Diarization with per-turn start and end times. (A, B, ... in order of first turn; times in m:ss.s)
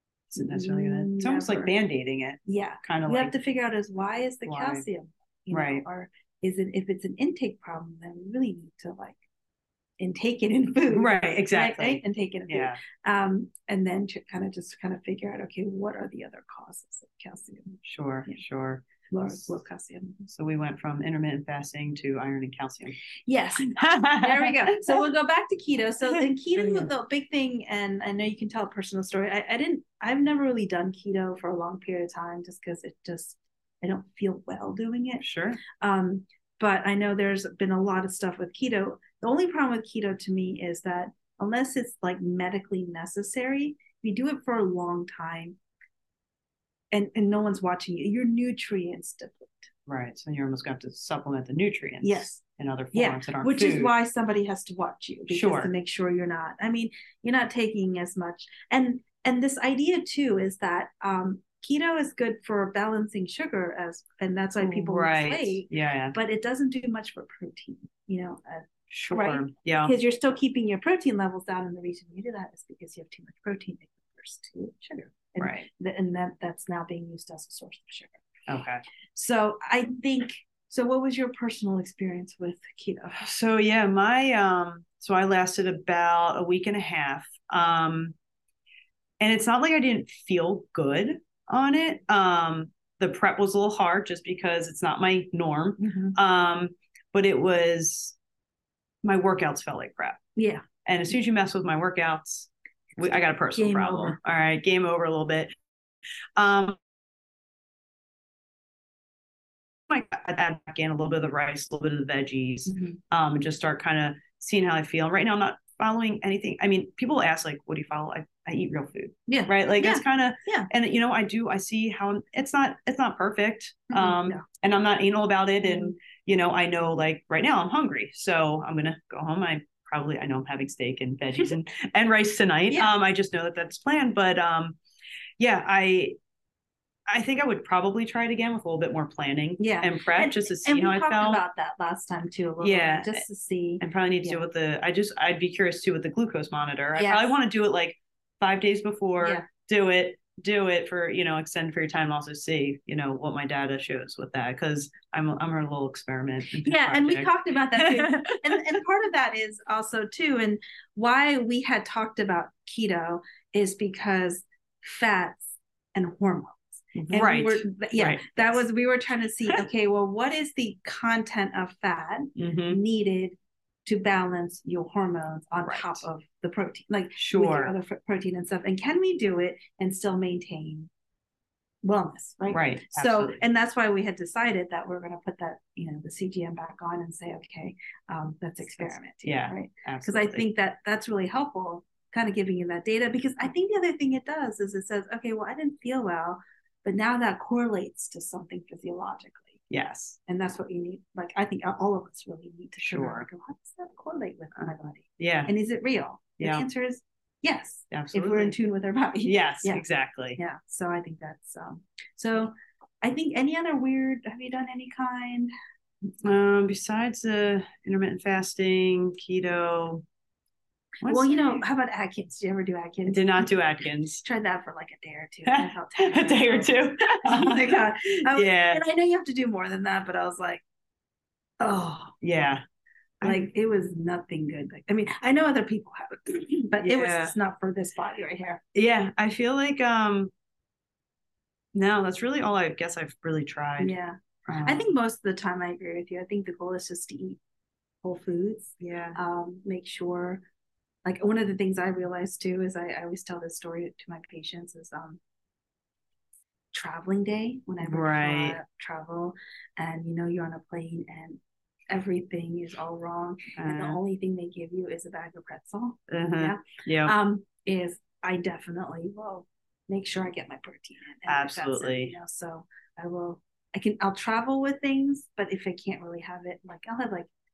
0:00.3-0:03.3 A
0:00.3-0:01.7 B
0:02.4-0:09.2 B
0:04.4-0:04.8 A
0:05.5-0:05.8 A
0:10.0-0:18.4 B
0:10.9-0:12.8 A
0:17.8-0:19.5 A
0:19.1-0:20.2 B
0:20.2-0:23.0 A
0:23.2-0:45.6 B
0:23.8-0:25.0 A
0:26.6-0:26.9 A
0:35.2-0:35.6 A
0:46.9-0:49.7 B
0:49.8-0:53.9 A
0:52.0-0:52.4 B
0:52.9-1:18.2 B
0:55.3-0:55.7 A
1:04.6-1:06.1 A
1:08.9-1:09.9 A
1:15.4-1:15.7 A
1:18.5-1:18.8 A
1:19.1-1:23.2 B
1:23.1-1:28.1 A
1:29.2-1:38.2 A
1:35.8-1:36.2 B
1:39.0-1:40.2 A
1:40.4-1:40.6 B
1:40.8-1:45.5 A
1:43.5-1:44.2 B
1:46.4-1:46.8 A
1:49.9-2:14.8 A
1:52.7-1:53.0 B
1:59.3-2:00.7 B
2:03.9-2:04.4 B
2:05.6-2:05.9 B
2:15.4-2:16.2 A
2:17.1-2:21.4 A
2:19.6-2:24.4 B
2:22.6-2:23.2 A
2:23.8-2:38.6 A
2:27.0-2:27.4 B
2:29.2-2:29.4 B
2:36.5-2:45.4 B
2:45.9-3:00.9 B
2:46.9-2:48.6 A
2:52.4-2:52.8 A
2:55.6-2:56.0 A
2:57.2-2:57.7 A
3:01.8-3:19.6 B
3:02.5-3:03.4 A
3:08.8-3:10.4 A
3:19.7-3:20.2 A
3:20.2-3:29.8 B
3:22.8-3:23.2 A
3:25.2-3:25.5 A
3:26.4-3:26.6 A
3:27.9-3:28.6 A
3:29.2-3:30.4 A
3:30.4-3:35.5 B
3:36.2-3:40.0 A
3:41.0-3:41.6 A
3:41.0-3:43.5 B
3:43.1-3:44.2 A
3:44.2-3:50.6 B
3:45.4-3:48.8 A
3:51.6-3:52.1 B
3:52.2-3:52.6 A
3:53.2-3:58.6 B
3:56.8-3:57.3 A
3:58.7-4:00.3 A
4:01.7-4:04.9 A
4:03.8-4:07.4 B
4:08.0-4:10.4 B
4:08.8-4:09.2 A
4:11.0-4:15.2 B
4:16.7-4:37.3 B
4:17.8-4:18.6 A
4:23.6-4:24.0 A
4:26.1-4:27.1 A
4:31.3-4:32.2 A